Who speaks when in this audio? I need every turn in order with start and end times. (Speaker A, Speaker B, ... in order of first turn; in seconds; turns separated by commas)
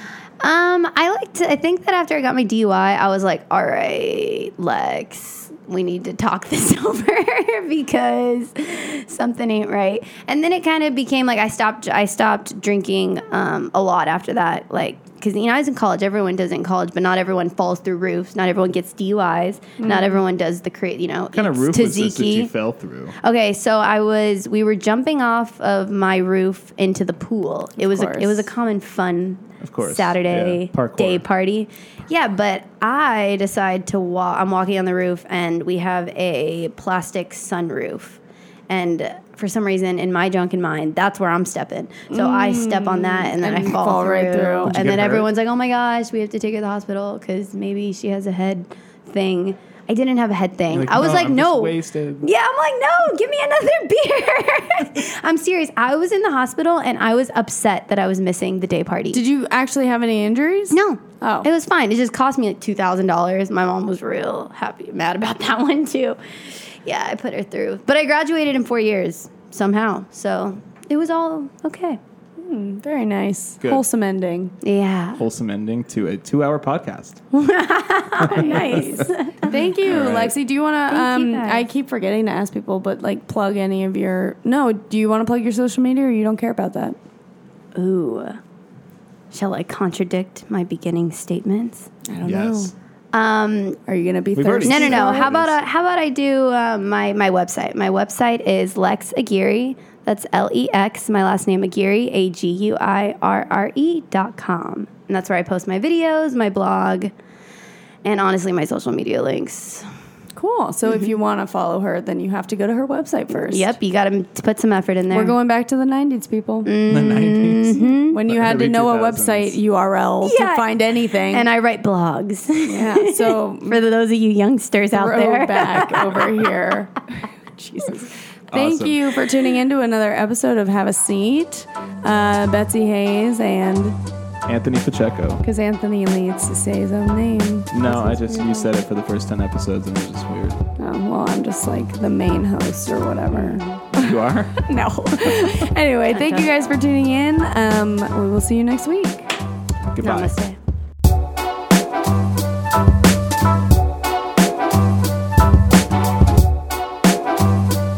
Speaker A: 0.4-22.5, Speaker B: 19.8-20.1, Speaker C: 21.3-23.2, Speaker A: 23.2-59.2, Speaker B: 27.8-28.5, Speaker C: 29.6-31.2, Speaker B: 42.1-44.8, Speaker C: 44.7-45.3, Speaker C: 50.7-52.3, Speaker B: 59.1-61.5, Speaker A: 60.7-72.0, Speaker B: 72.4-74.5, Speaker A: 74.6-75.2, Speaker C: 75.2-77.2, Speaker A: 77.3-79.5, Speaker C: 78.2-79.1, Speaker B: 78.3-87.0, Speaker C: 79.8-80.3, Speaker A: 80.9-81.7, Speaker A: 87.8-88.4, Speaker A: 89.3-91.9, Speaker B: 92.1-92.7, Speaker C: 92.2-92.7, Speaker A: 93.1-93.8, Speaker B: 93.9-95.3, Speaker C: 94.3-95.6, Speaker A: 94.6-107.1, Speaker A: 108.0-109.9, Speaker B: 110.4-113.7, Speaker A: 113.4-115.4, Speaker B: 115.1-116.7, Speaker A: 116.7-118.2, Speaker C: 116.9-119.6, Speaker B: 118.1-121.5, Speaker A: 120.2-126.3, Speaker B: 122.7-123.8, Speaker B: 124.9-133.9, Speaker C: 128.5-129.1, Speaker C: 134.5-135.4, Speaker B: 135.4-138.7, Speaker C: 137.7-140.6, Speaker B: 140.8-149.3, Speaker A: 143.3-143.8, Speaker C: 143.9-145.3, Speaker A: 146.1-146.5, Speaker C: 149.9-150.3, Speaker A: 150.0-150.6